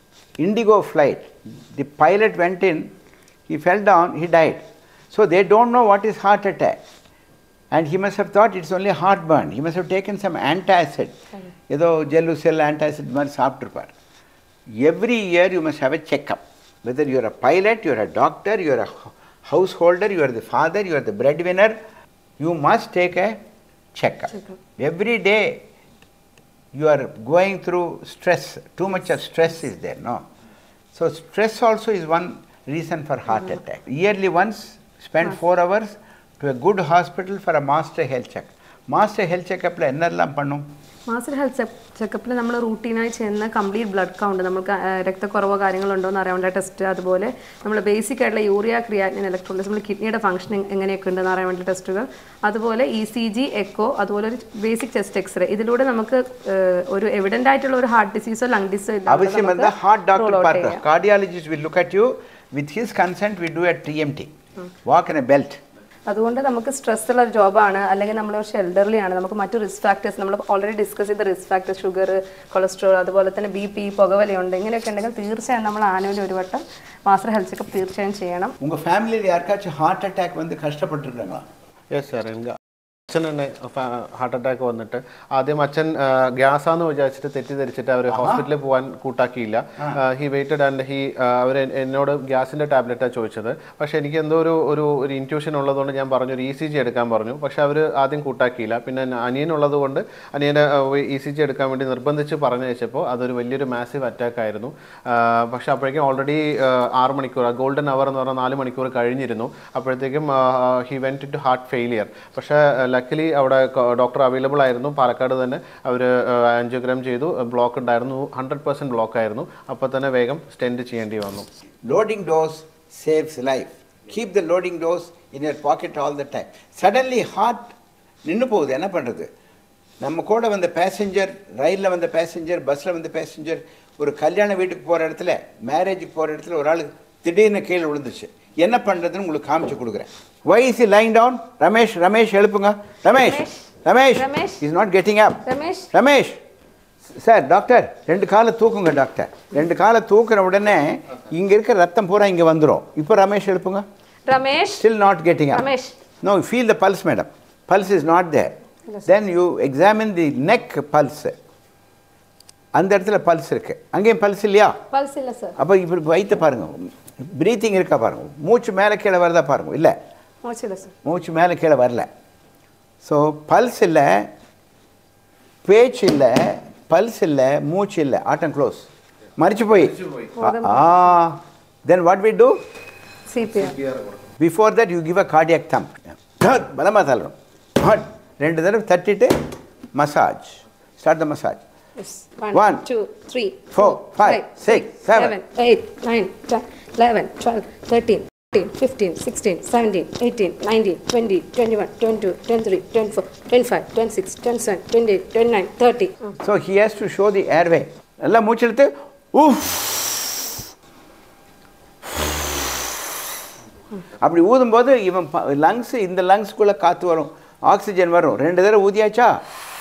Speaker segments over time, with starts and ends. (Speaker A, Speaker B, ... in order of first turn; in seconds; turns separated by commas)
Speaker A: 0.4-2.9, Speaker A: 3.5-6.8, Speaker A: 7.7-11.1, Speaker A: 11.7-13.9, Speaker A: 14.8-21.8, Speaker A: 22.4-23.4, Speaker A: 23.9-25.6, Speaker A: 26.7-30.2, Speaker A: 30.9-40.6, Speaker B: 41.1-60.8, Speaker A: 59.1-64.3, Speaker A: 64.8-65.6, Speaker B: 66.1-78.5, Speaker A: 78.6-81.4, Speaker C: 81.9-82.6, Speaker C: 83.1-121.5, Speaker A: 88.1-88.5, Speaker A: 121.8-127.7, Speaker A: 128.2-129.3, Speaker A: 130.0-145.4, Speaker B: 143.1-144.6, Speaker B: 145.4-145.9, Speaker A: 145.9-146.4, Speaker A: 147.1-153.8, Speaker B: 154.2-154.8, Speaker A: 154.8-155.7, Speaker B: 155.5-156.0, Speaker A: 156.2-158.5, Speaker A: 159.0-161.3, Speaker A: 162.7-164.7, Speaker B: 164.9-165.6, Speaker A: 165.6-169.9, Speaker B: 170.4-170.9, Speaker A: 171.0-172.1, Speaker A: 173.0-174.3, Speaker A: 175.6-182.6, Speaker B: 180.4-181.0, Speaker B: 183.3-183.8, Speaker C: 183.9-184.1, Speaker A: 184.4-189.3, Speaker A: 189.9-191.6, Speaker B: 192.0-206.3, Speaker A: 192.5-192.8, Speaker A: 193.7-195.3, Speaker A: 206.4-210.6, Speaker A: 214.2-219.4